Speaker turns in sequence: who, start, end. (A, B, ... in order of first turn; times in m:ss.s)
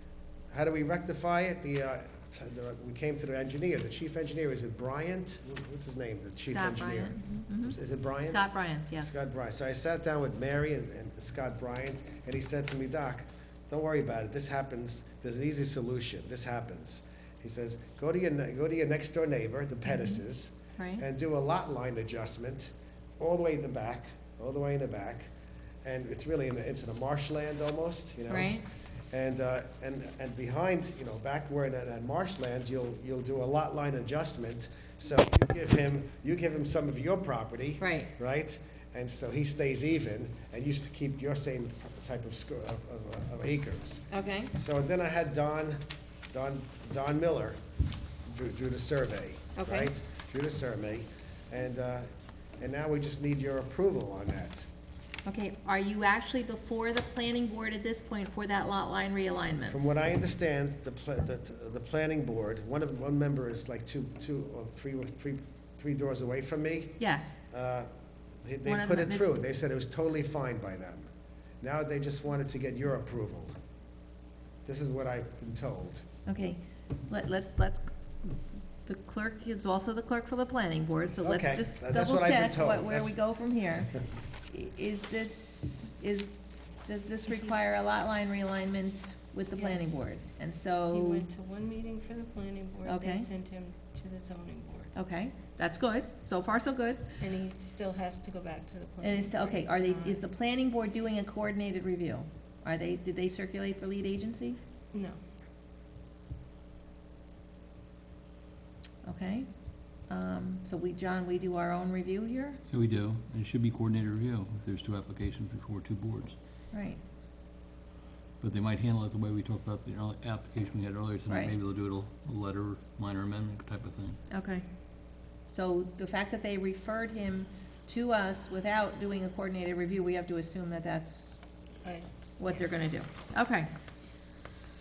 0:00.5-0:25.3 A
0:06.5-0:09.2 B
0:19.9-0:20.2 B
0:20.8-0:21.0 B
0:25.8-0:45.8 A
0:28.3-0:28.6 B
0:37.8-0:38.1 B
0:44.1-0:44.5 B
0:46.3-0:47.6 A
0:48.3-0:54.7 A
0:49.6-0:49.9 B
0:55.2-0:59.9 B
0:59.7-1:07.0 A
1:07.0-1:07.3 B
1:07.5-1:07.9 A
1:08.4-1:11.1 A
1:08.6-1:09.3 B
1:11.6-1:13.5 A
1:14.6-1:16.0 A
1:16.2-1:24.0 B
1:21.2-1:23.1 A
1:24.5-1:26.3 B
1:26.8-1:31.3 B
1:29.6-1:29.9 C
1:30.9-1:34.9 C
1:32.8-1:33.3 B
1:34.9-1:37.0 B
1:37.2-1:40.2 C
1:39.0-1:44.6 B
1:44.9-1:45.2 C
1:49.0-1:49.5 B
1:50.1-1:52.6 B
1:52.7-1:56.3 D
1:56.7-1:57.0 B
1:58.4-2:04.2 D
2:01.3-2:01.5 B
2:04.3-2:04.6 B
2:05.5-2:11.2 B
2:12.4-2:13.7 B